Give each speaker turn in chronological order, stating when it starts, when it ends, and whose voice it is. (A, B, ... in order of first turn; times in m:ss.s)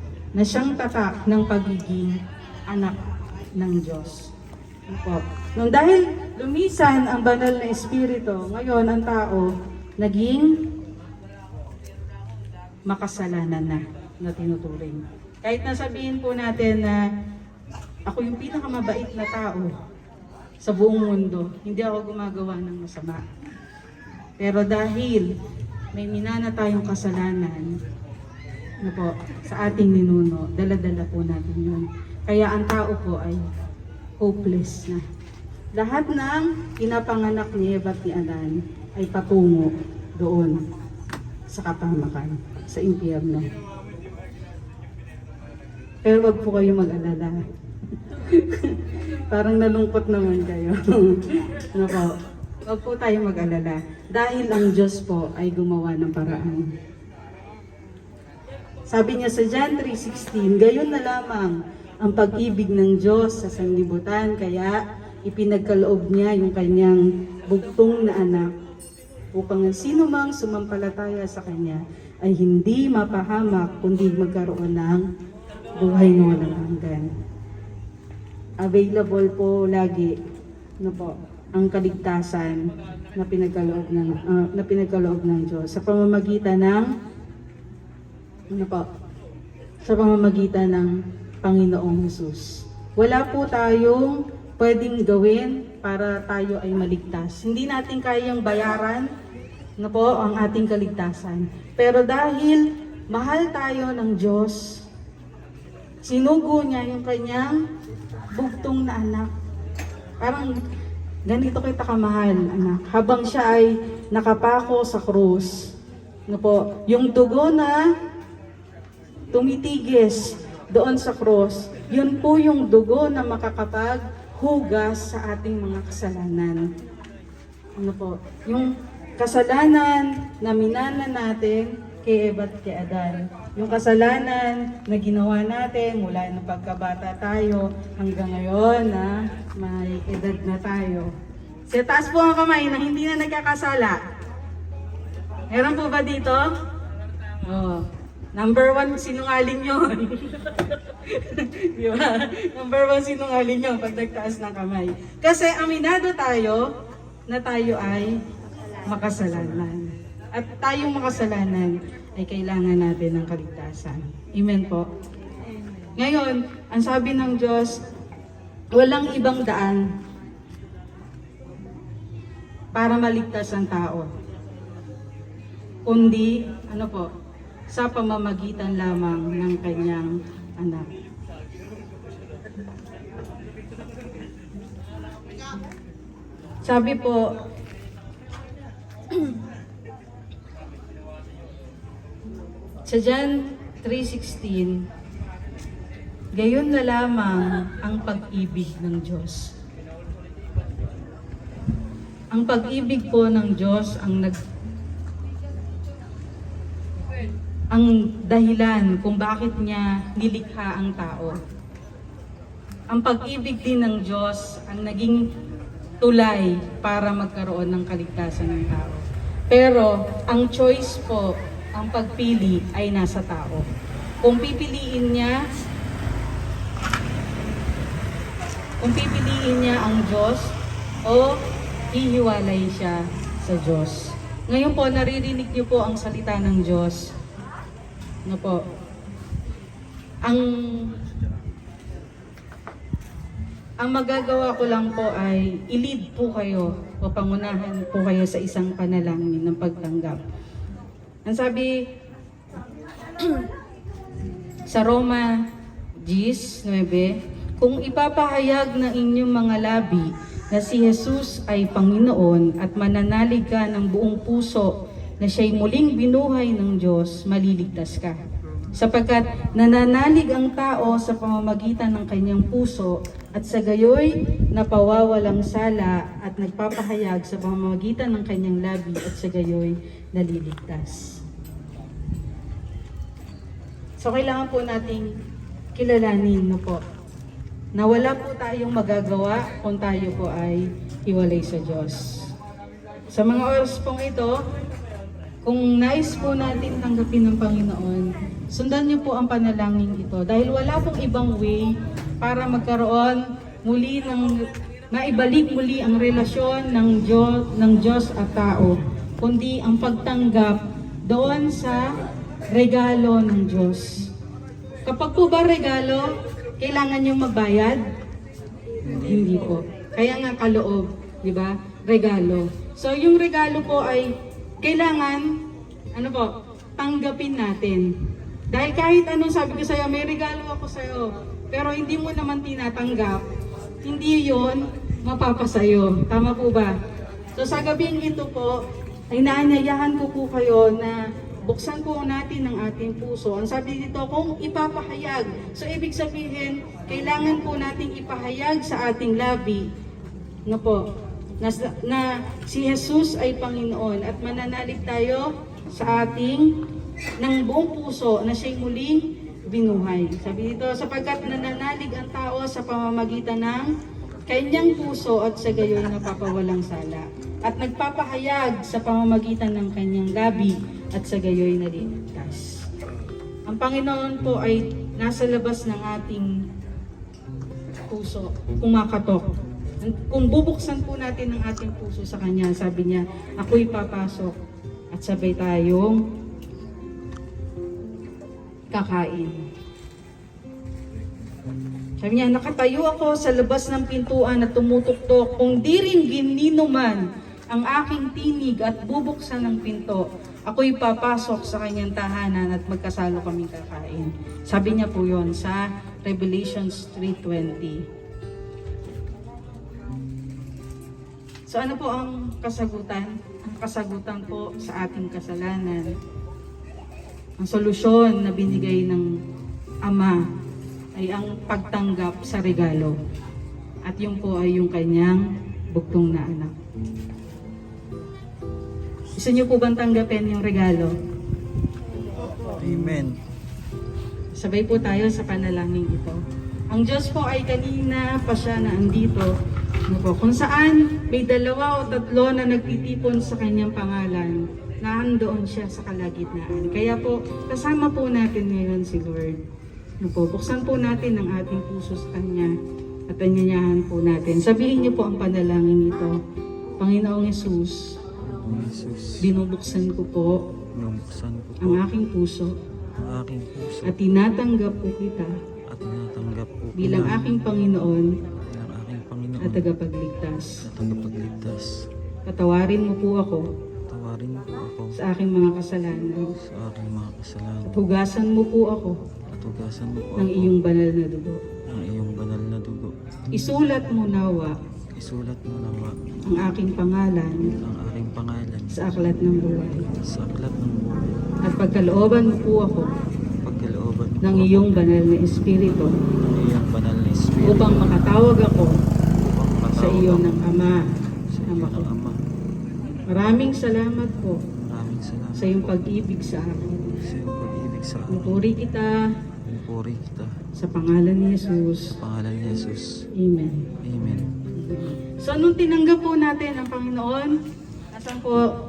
0:00.4-0:03.0 A
0:03.6-0:04.3 A
0:04.9-0:10.5 A
0:12.9-0:17.0 A
0:18.1-0:19.7 A
0:20.6-0:23.2 A
0:24.4-0:25.3 A
0:25.9-0:27.8 A
0:28.8-0:33.4 A
0:34.2-0:35.0 A
0:35.8-0:40.6 A
0:41.5-0:43.5 A
0:46.0-0:47.4 A
0:48.0-0:52.2 A
0:52.7-0:56.7 A
0:58.9-1:08.5 A
1:09.3-1:15.1 A
1:15.7-1:17.1 A
1:18.6-1:20.2 A
1:20.8-1:26.9 A
1:28.5-1:28.9 A
1:29.8-1:39.1 A
1:39.8-1:44.7 A
1:46.0-1:47.6 A
1:48.4-1:49.3 A
1:50.2-1:50.5 A
1:51.3-1:55.6 A
1:56.3-1:57.8 A
1:59.3-2:06.6 A
2:07.8-2:21.1 A
2:21.7-2:24.0 A
2:25.5-2:26.5 A
2:27.4-2:36.7 A
2:37.3-2:38.2 A
2:38.8-2:44.9 A
2:39.2-2:39.7 B
2:46.0-2:47.8 A
2:48.7-2:49.9 A
2:52.8-2:54.1 A
2:55.9-2:57.1 A
2:57.7-3:00.9 A
3:06.6-3:07.3 A
3:12.9-3:14.8 A
3:16.3-3:19.5 A
3:22.3-3:24.4 A
3:27.7-3:31.4 A
3:32.9-3:35.3 A
3:36.0-3:43.7 A
3:44.2-3:45.4 A
3:48.8-3:50.5 A
3:51.1-3:51.4 A
3:51.9-3:57.1 A
3:58.3-3:58.6 A
4:00.2-4:00.9 A
4:03.8-4:10.2 A
4:11.3-4:11.8 A
4:13.2-4:13.5 A
4:14.7-4:15.3 A
4:16.0-4:28.2 A
4:28.7-4:41.2 A
4:44.0-4:45.1 A
4:45.8-4:46.8 A
4:47.8-4:52.3 A
4:53.1-4:54.4 A
4:55.4-5:12.0 A
5:12.5-5:14.1 A
5:14.9-5:17.8 A
5:18.8-5:19.5 B
5:18.9-5:25.3 A
5:26.0-5:27.9 A
5:28.5-5:33.2 A
5:33.8-5:36.8 A
5:37.4-5:38.6 A
5:39.1-5:49.7 A
5:50.5-5:50.8 A
5:51.4-5:56.5 A
5:57.2-6:03.7 A
6:04.3-6:12.6 A
6:13.5-6:16.3 A
6:17.9-6:19.3 A
6:19.8-6:24.4 A
6:24.9-6:26.0 A
6:28.7-6:29.4 A
6:32.0-6:47.8 A
6:51.5-6:56.0 A
6:57.4-6:59.1 A
6:59.8-7:00.2 A
7:01.0-7:03.0 A
7:03.8-7:06.6 A
7:09.2-7:11.0 A
7:12.4-7:13.2 B
7:14.4-7:19.3 A
7:19.9-7:29.4 A
7:30.0-7:32.5 A
7:33.1-7:36.2 A
7:36.8-7:38.0 A
7:38.2-7:39.3 B
7:39.2-7:40.4 A
7:40.7-7:41.9 B
7:41.6-7:42.6 A
7:43.0-7:44.0 B
7:43.8-7:45.4 A
7:45.7-7:47.2 B
7:46.8-7:48.2 A
7:48.4-7:49.7 B
7:49.4-7:50.6 A
7:50.6-7:51.7 B
7:52.3-7:53.5 A
7:53.9-7:55.0 B
7:55.0-7:56.3 A
7:56.4-7:57.8 B
7:57.7-7:59.0 A
7:59.3-8:00.6 B
8:00.2-8:01.4 A
8:01.7-8:02.9 B
8:03.3-8:04.6 A
8:05.0-8:06.0 B
8:06.3-8:07.6 A
8:07.6-8:08.7 B
8:08.7-8:09.9 A
8:10.0-8:11.3 B
8:11.4-8:12.9 A
8:13.4-8:15.0 B
8:14.2-8:15.9 A
8:16.2-8:18.2 B
8:17.4-8:18.8 A
8:19.2-8:20.5 B
8:19.8-8:20.8 A
8:21.3-8:22.2 B
8:21.5-8:21.9 A
8:23.1-8:24.4 A
8:24.5-8:25.8 B
8:25.4-8:26.8 A
8:26.9-8:28.5 B
8:28.1-8:29.1 A
8:29.4-8:30.4 B
8:30.6-8:31.9 A
8:32.0-8:32.9 B
8:33.1-8:33.7 A
8:33.8-8:34.3 B
8:34.6-8:37.4 A
8:37.9-8:38.5 A